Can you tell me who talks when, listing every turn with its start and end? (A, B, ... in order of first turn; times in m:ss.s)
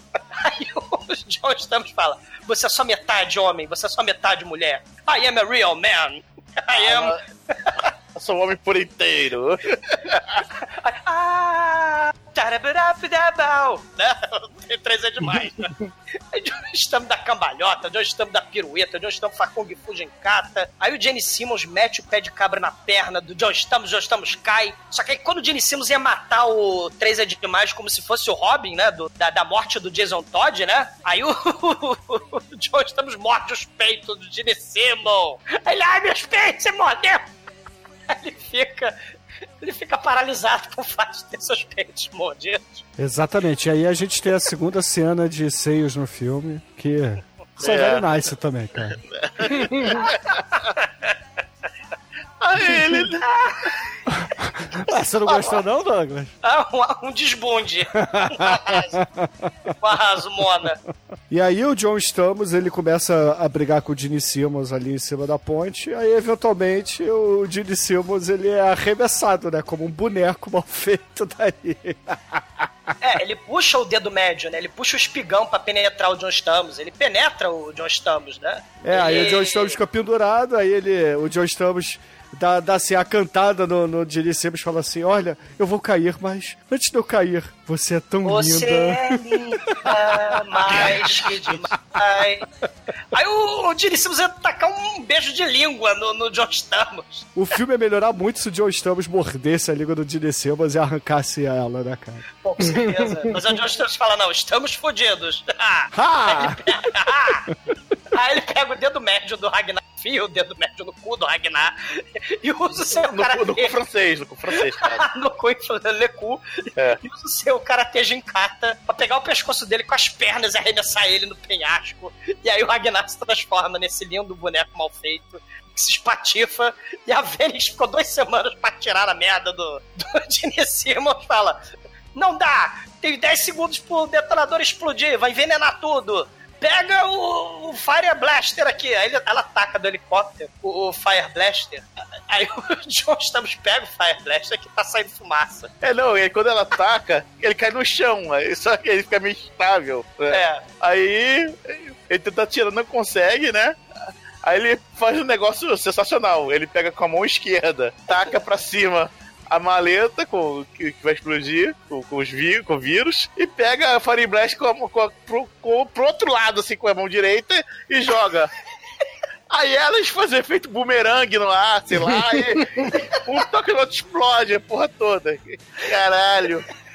0:00.3-0:07.7 A
0:06.7-0:07.2 B
0:08.1-0:10.4 B
0:10.6-0:15.7 A
0:16.3-0:37.3 A
0:38.1-0:38.9 A
0:39.6-0:42.8 A
0:43.0-0:49.0 C
0:47.6-0:48.1 B
0:49.1-0:50.4 B
0:50.0-0:51.1 A
0:52.4-0:53.3 B
0:54.4-0:56.3 C
0:55.2-0:55.6 A
0:56.4-0:59.0 A
0:58.0-0:59.5 C
0:59.8-1:00.8 A
1:01.3-1:12.9 C
1:13.0-1:19.7 A
1:18.8-1:31.4 C
1:28.2-1:32.4 A
1:33.1-1:37.3 A
1:37.3-1:42.2 C
1:42.4-1:47.4 A
1:45.9-1:46.6 C
1:48.1-1:53.7 A
1:52.9-1:55.1 B
1:54.6-2:11.6 A
2:12.1-2:25.7 A
2:25.8-2:33.8 B
2:30.3-2:30.6 A
2:34.4-2:48.5 B
2:49.5-2:56.7 B